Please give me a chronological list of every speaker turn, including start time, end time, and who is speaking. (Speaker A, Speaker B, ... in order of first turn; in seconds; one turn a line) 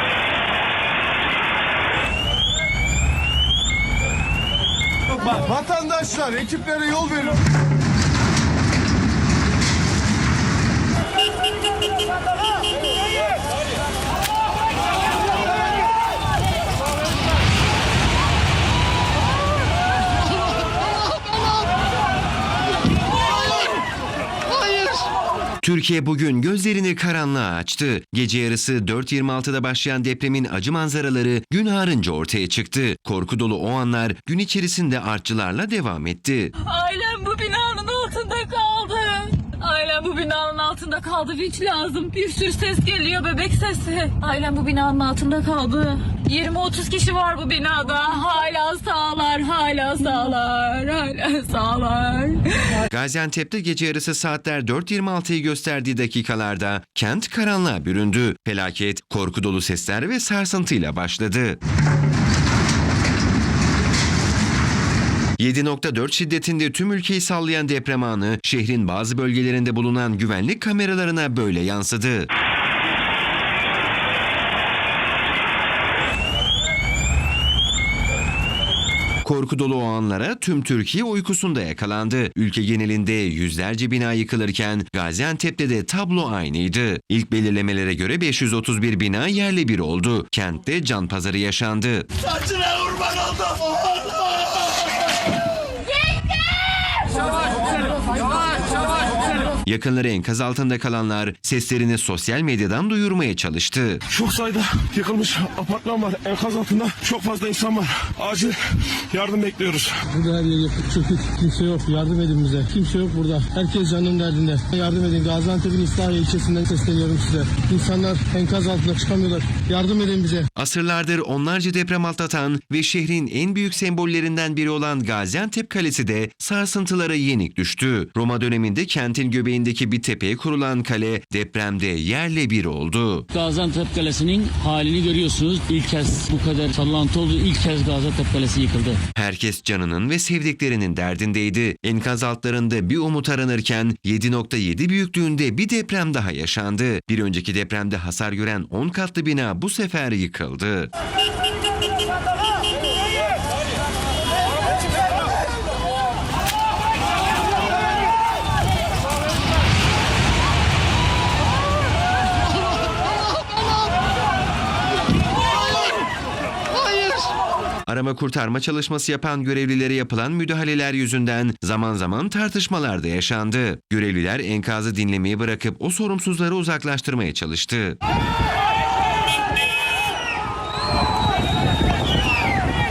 Speaker A: 5.3-7.3
Speaker B: 25.6-36.5
Speaker C: 36.6-52.9
Speaker B: 52.9-61.6
Speaker B: 65.4-72.3
Speaker B: 79.2-92.1
Speaker B: 99.7-104.0
Speaker D: 104.1-110.0
Speaker A: 110.1-120.5
Speaker B: 120.6-133.3
Speaker E: 133.3-139.0
Speaker B: 139.1-150.9
Speaker B: 167.9-178.0